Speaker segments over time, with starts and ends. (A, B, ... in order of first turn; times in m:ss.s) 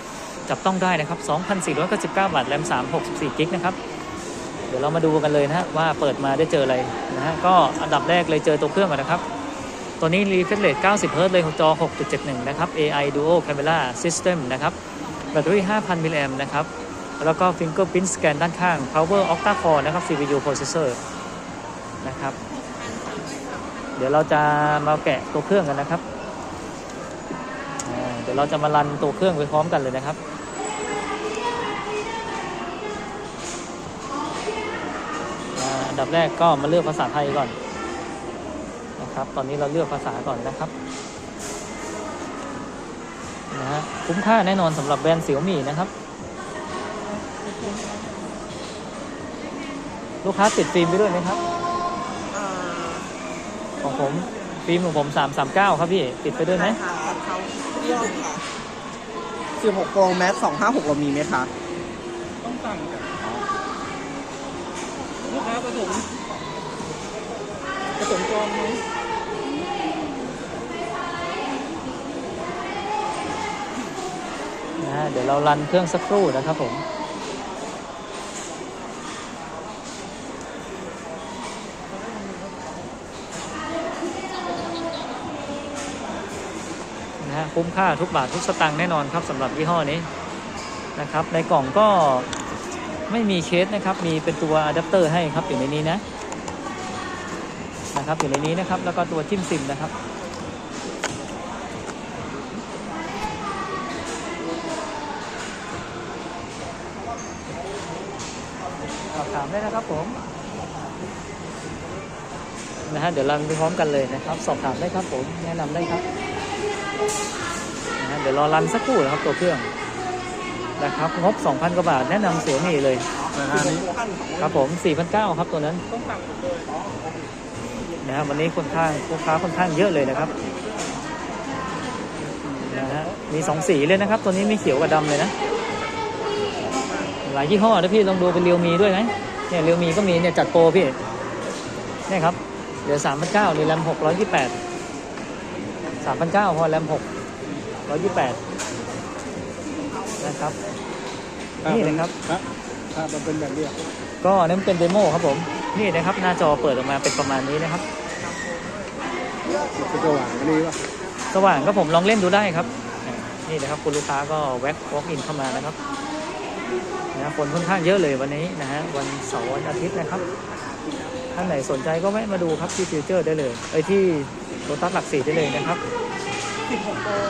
0:00.4-0:03.8 A
0:04.7-0:09.2 A
0:10.0-0:14.8 A
0:15.3-0:16.7 A
0:17.2-0:21.0 A
0:22.0-0:22.4 A
0:24.0-0:26.0 A
0:27.8-0:30.2 A
0:35.6-0:37.5 A
0:39.0-0:40.7 A
0:43.5-0:45.9 A
0:50.2-0:51.4 A
0:52.3-0:53.1 B
0:53.8-0:56.8 A
0:56.8-0:58.4 B
0:59.6-1:01.5 B
1:02.5-1:03.1 C
1:05.6-1:06.0 C
1:08.1-1:08.7 C
1:14.8-1:16.8 A
1:27.2-1:30.1 A
1:31.0-1:32.3 A
1:33.1-1:36.0 A
1:37.9-1:39.9 A
1:49.1-1:50.2 A
1:52.9-1:56.0 A
1:58.0-1:59.7 A
2:00.8-2:03.0 A
2:03.3-2:03.9 C
2:04.4-2:05.8 A
2:08.0-2:10.3 A
2:12.6-2:15.3 A
2:17.2-2:21.0 A
2:22.1-2:24.6 A
2:26.0-2:27.0 A
2:27.9-2:28.4 A
2:30.2-2:30.6 A
2:31.6-2:33.8 C
2:31.6-2:32.1 A
2:34.2-2:37.8 A
2:39.7-2:40.8 C
2:41.3-2:45.8 A
2:47.1-2:50.2 A
2:51.3-2:55.8 A